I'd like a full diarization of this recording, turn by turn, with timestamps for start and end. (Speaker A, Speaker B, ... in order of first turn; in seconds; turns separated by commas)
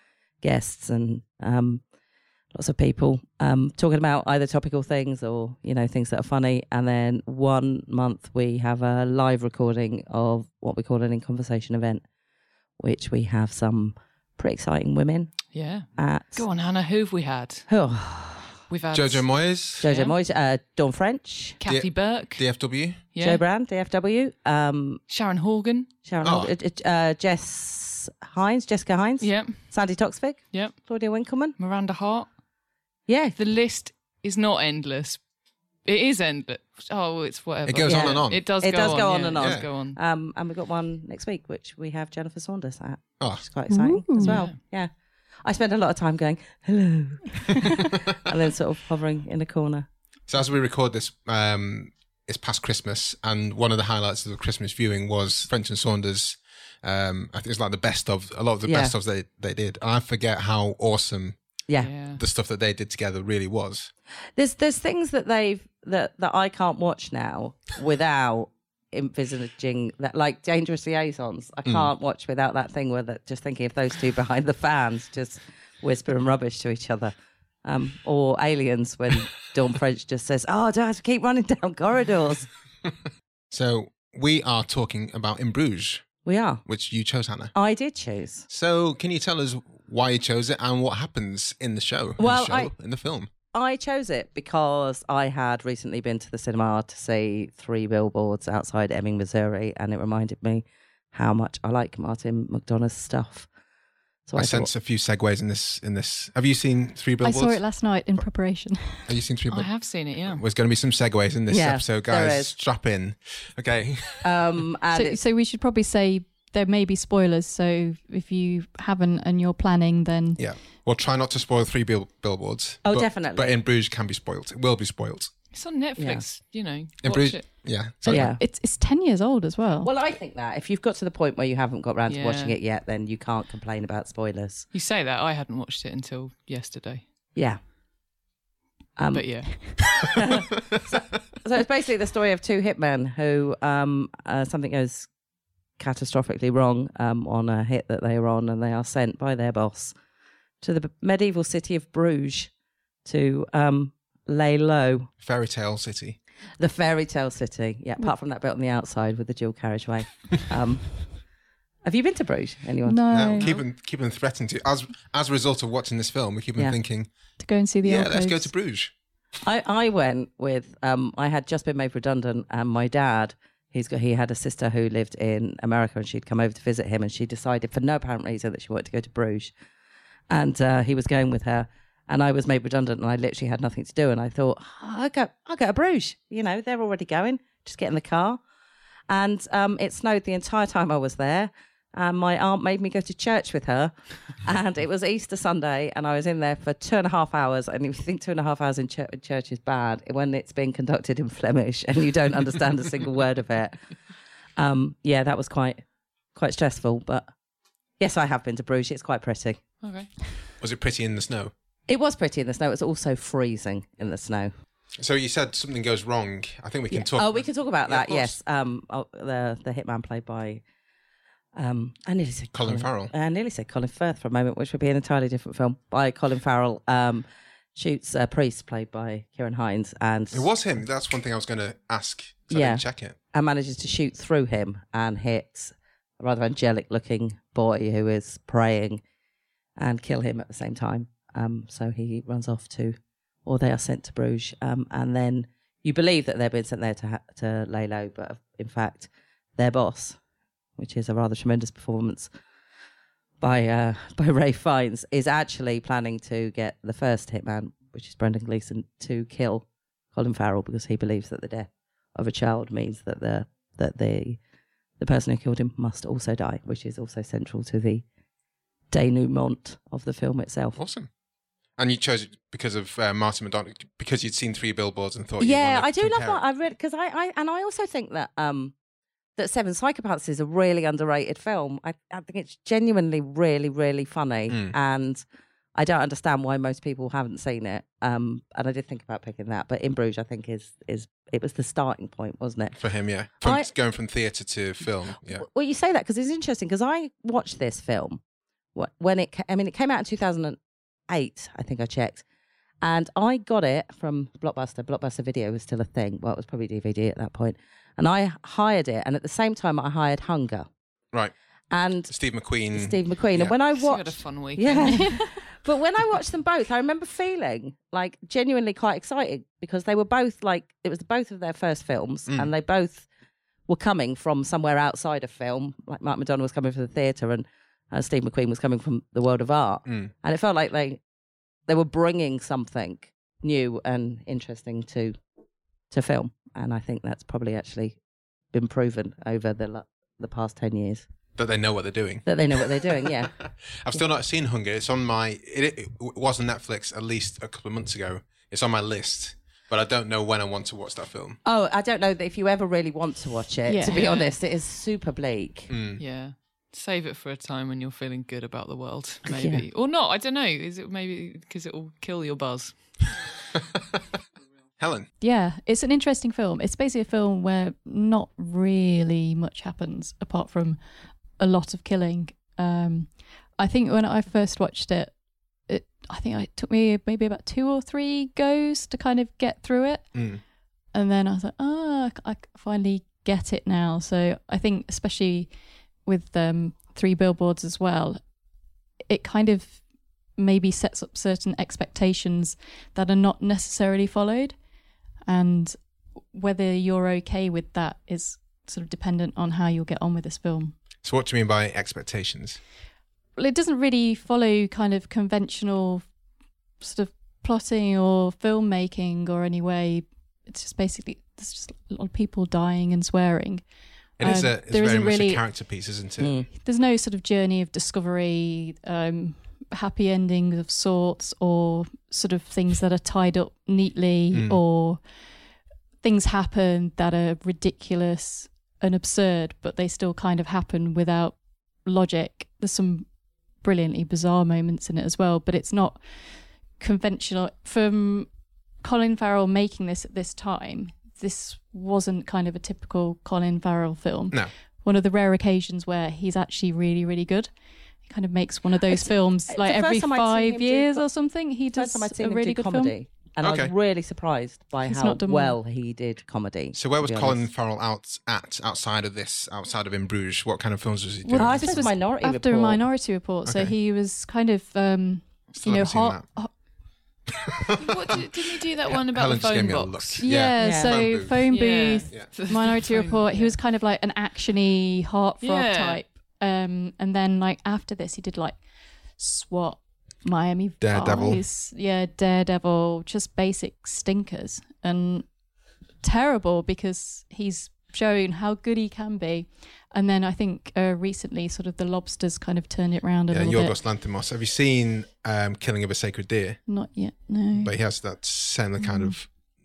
Speaker A: 0.4-1.8, Speaker A: 2.5-12.0, Speaker A: 12.8-15.3, Speaker B: 15.5-17.7, Speaker A: 16.0-16.4, Speaker A: 17.7-18.6, Speaker B: 18.7-19.2, Speaker C: 18.9-19.9, Speaker A: 19.8-21.6, Speaker B: 19.8-20.1, Speaker B: 21.6-22.4, Speaker C: 21.6-23.0, Speaker B: 23.1-23.4, Speaker A: 23.2-25.0, Speaker B: 25.1-25.9, Speaker A: 26.1-31.5, Speaker C: 26.2-26.5, Speaker B: 29.2-29.6, Speaker B: 30.5-30.8, Speaker B: 31.6-32.3, Speaker A: 33.1-33.4, Speaker B: 33.4-35.2, Speaker B: 35.8-40.0, Speaker C: 37.6-38.5, Speaker A: 37.9-44.9, Speaker C: 39.3-39.7, Speaker D: 43.7-44.4, Speaker B: 44.2-44.5, Speaker A: 45.4-49.9, Speaker C: 47.7-48.0, Speaker C: 50.3-61.4, Speaker A: 58.6-58.9, Speaker B: 61.8-62.2, Speaker C: 62.1-63.9, Speaker A: 64.3-77.1, Speaker A: 77.6-82.5, Speaker C: 83.5-86.1, Speaker A: 86.2-86.6, Speaker C: 86.6-87.5, Speaker A: 87.5-88.5, Speaker C: 88.5-93.3, Speaker A: 92.2-92.7, Speaker A: 93.5-103.5, Speaker A: 104.3-104.7, Speaker C: 104.3-107.6, Speaker D: 107.2-109.1, Speaker C: 109.0-109.7, Speaker B: 109.5-110.4, Speaker C: 110.2-114.6, Speaker A: 111.5-112.5, Speaker A: 114.2-115.2, Speaker D: 114.9-120.4, Speaker C: 120.4-125.3, Speaker A: 122.8-123.6, Speaker B: 125.5-127.5, Speaker A: 126.0-126.2, Speaker C: 127.0-128.4, Speaker D: 128.1-129.9, Speaker A: 128.1-128.4, Speaker A: 129.8-134.7, Speaker B: 132.1-132.6, Speaker B: 134.7-137.0, Speaker A: 139.0-145.1, Speaker B: 139.1-140.1, Speaker A: 145.8-149.9, Speaker A: 150.6-152.5, Speaker A: 153.0-155.1, Speaker C: 155.2-156.2, Speaker A: 156.6-161.0, Speaker A: 161.8-163.6, Speaker D: 162.8-163.5, Speaker C: 163.1-167.1, Speaker D: 167.4-168.5, Speaker C: 167.8-168.9, Speaker A: 169.4-179.5, Speaker A: 180.3-188.4, Speaker A: 189.1-203.9, Speaker A: 204.6-205.8, Speaker A: 206.3-207.3, Speaker A: 208.0-209.6, Speaker B: 209.8-210.1, Speaker C: 210.6-211.5, Speaker A: 211.9-214.5, Speaker C: 215.0-218.3, Speaker A: 216.9-220.6, Speaker A: 221.6-230.5, Speaker C: 222.5-223.1, Speaker C: 230.3-233.2, Speaker A: 232.5-239.0, Speaker A: 239.8-250.2, Speaker A: 250.8-252.3, Speaker A: 253.4-264.4, Speaker A: 265.0-268.0, Speaker A: 268.9-270.8, Speaker C: 270.8-271.1, Speaker C: 271.8-276.4, Speaker A: 275.4-278.7, Speaker A: 279.4-285.2, Speaker C: 284.5-284.7, Speaker A: 285.7-292.8, Speaker C: 292.8-295.4, Speaker A: 293.4-293.7, Speaker A: 295.3-298.2, Speaker A: 298.7-300.6, Speaker A: 301.1-302.2, Speaker A: 302.8-310.7, Speaker A: 311.7-312.1, Speaker C: 312.1-313.5, Speaker A: 312.7-323.1, Speaker B: 313.7-315.2, Speaker A: 323.7-331.0, Speaker C: 329.9-330.1, Speaker A: 331.7-335.1, Speaker A: 335.9-338.0, Speaker A: 338.5-341.1, Speaker C: 341.4-351.4, Speaker A: 342.2-343.3, Speaker A: 351.4-355.7, Speaker D: 353.6-354.0, Speaker B: 353.9-354.3, Speaker C: 355.7-356.0, Speaker B: 356.0-362.9, Speaker A: 359.3-359.6, Speaker C: 363.5-364.0, Speaker C: 364.8-365.1, Speaker D: 365.2-370.8, Speaker D: 371.4-375.1, Speaker D: 375.7-380.1, Speaker C: 380.1-380.4, Speaker D: 380.9-385.5, Speaker D: 386.1-388.2, Speaker D: 389.1-389.8, Speaker D: 390.4-394.5, Speaker D: 395.2-395.8, Speaker D: 396.3-400.7, Speaker C: 401.0-402.6, Speaker D: 403.4-406.1, Speaker D: 406.8-413.6, Speaker C: 414.2-416.4, Speaker D: 414.2-415.4, Speaker A: 416.2-416.5, Speaker D: 416.5-425.0, Speaker C: 424.3-424.6, Speaker D: 426.0-433.1, Speaker D: 433.6-436.0, Speaker D: 436.8-438.3, Speaker D: 438.8-447.5, Speaker D: 448.0-452.9, Speaker A: 448.9-451.0, Speaker A: 451.8-457.4, Speaker C: 453.4-453.7, Speaker D: 454.8-455.6, Speaker C: 456.7-461.9, Speaker D: 461.2-466.5, Speaker A: 461.4-462.8, Speaker C: 463.4-463.7, Speaker C: 465.5-466.2, Speaker C: 467.3-471.4, Speaker B: 467.8-470.2, Speaker D: 470.2-478.6, Speaker A: 470.6-471.0, Speaker B: 471.5-473.5, Speaker B: 475.4-476.0, Speaker D: 479.2-485.3, Speaker C: 480.8-481.4, Speaker D: 486.0-493.8, Speaker C: 493.3-496.6, Speaker D: 496.7-497.7, Speaker C: 497.5-499.3, Speaker D: 498.8-499.1